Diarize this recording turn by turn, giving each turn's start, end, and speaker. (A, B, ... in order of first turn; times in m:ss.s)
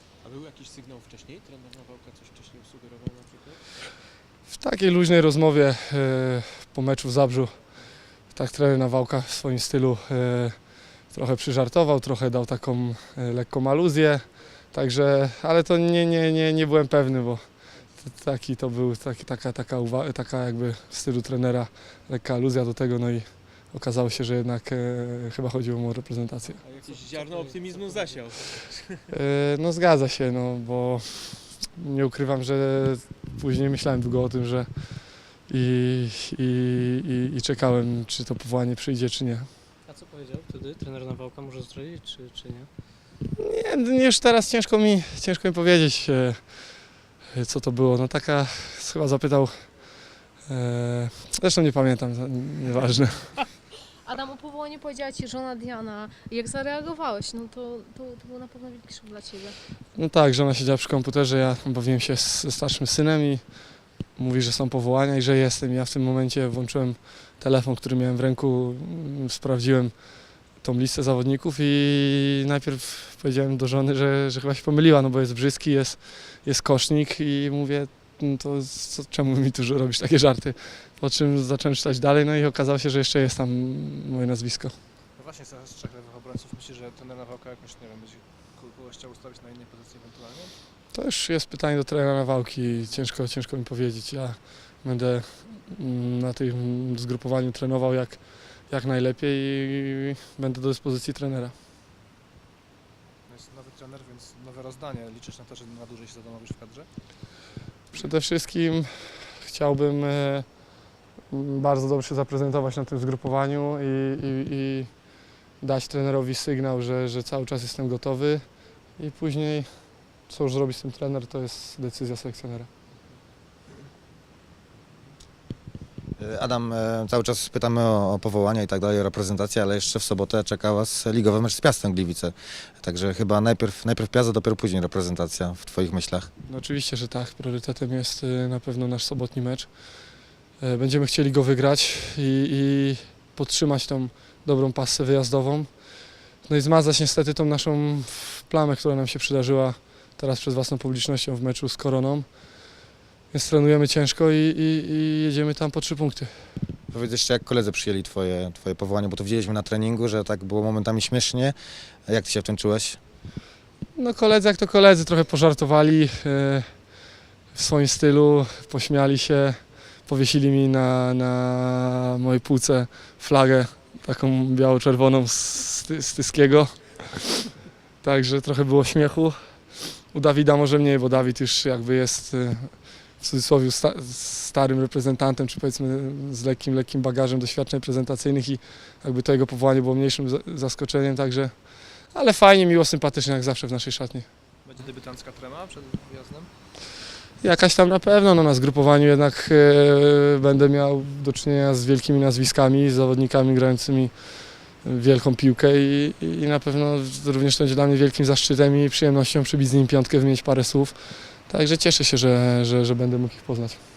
0:00.2-0:03.6 A
0:04.5-0:07.5 B
0:08.3-0:26.6 B
0:26.6-0:29.1 A
0:26.8-0:28.4 C
0:29.1-0:39.5 B
0:39.8-0:42.9 C
0:43.4-0:53.4 B
0:54.0-0:59.6 D
0:59.9-1:24.8 B
1:25.1-1:30.5 E
1:30.9-1:41.5 B
1:43.3-1:46.9 E
1:47.9-1:50.7 B
1:51.3-2:02.7 B
2:06.2-2:16.3 F
2:16.4-2:32.8 B
2:33.3-2:36.6 B
2:36.9-2:41.5 F
2:42.0-2:43.0 F
2:43.9-2:57.3 B
2:58.0-3:14.3 B
3:14.6-3:16.5 E
3:17.4-3:33.8 B